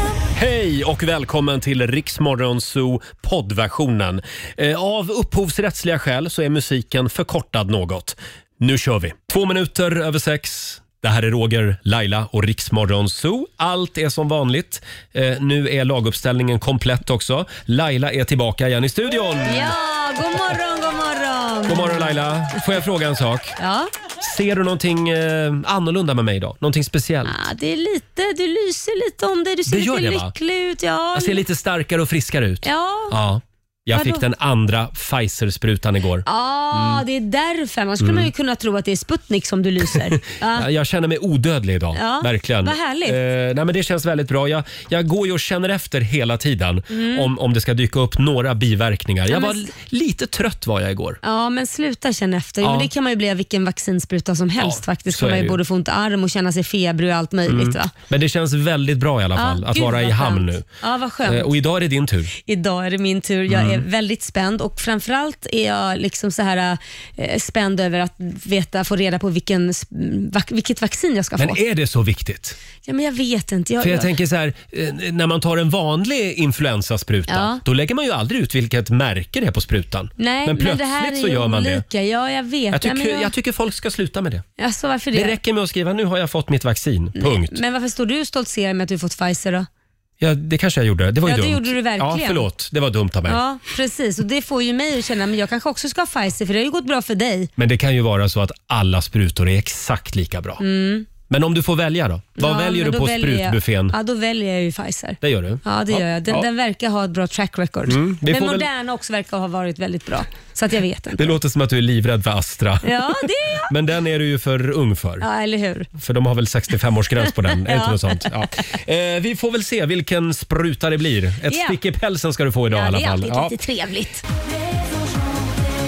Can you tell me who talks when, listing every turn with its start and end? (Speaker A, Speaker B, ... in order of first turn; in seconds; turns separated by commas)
Speaker A: 0.3-19.8, Speaker B: 19.4-22.1, Speaker A: 21.7-23.6, Speaker B: 23.6-23.9, Speaker A: 24.2-27.4, Speaker B: 27.2-31.4, Speaker A: 29.7-30.3, Speaker A: 31.1-37.0, Speaker B: 32.6-33.2, Speaker B: 33.9-34.2, Speaker B: 36.3-40.7, Speaker A: 38.0-38.3, Speaker A: 39.9-51.2, Speaker B: 41.9-43.2, Speaker B: 46.9-47.3, Speaker B: 49.3-49.6, Speaker B: 51.2-57.9, Speaker A: 52.6-52.9, Speaker A: 54.6-55.6, Speaker A: 57.5-60.6, Speaker B: 59.4-61.5, Speaker A: 61.2-62.3, Speaker B: 62.4-71.6, Speaker A: 63.5-63.9, Speaker A: 71.4-72.6, Speaker B: 72.9-74.1, Speaker A: 73.8-81.8, Speaker B: 77.3-77.6, Speaker B: 80.2-83.3, Speaker A: 82.7-84.5, Speaker B: 84.6-85.4, Speaker A: 85.1-87.6, Speaker B: 87.2-89.7, Speaker A: 90.2-93.4, Speaker B: 91.2-92.5, Speaker B: 93.3-97.5, Speaker A: 97.6-100.6, Speaker B: 100.6-101.1, Speaker A: 101.3-104.0, Speaker B: 102.4-111.3, Speaker A: 105.2-106.5, Speaker A: 107.9-108.7, Speaker A: 111.2-113.0, Speaker B: 112.8-113.7, Speaker A: 113.7-115.3, Speaker B: 115.2-115.9, Speaker A: 116.0-123.5, Speaker B: 117.5-118.3, Speaker B: 121.5-121.8, Speaker B: 122.7-124.2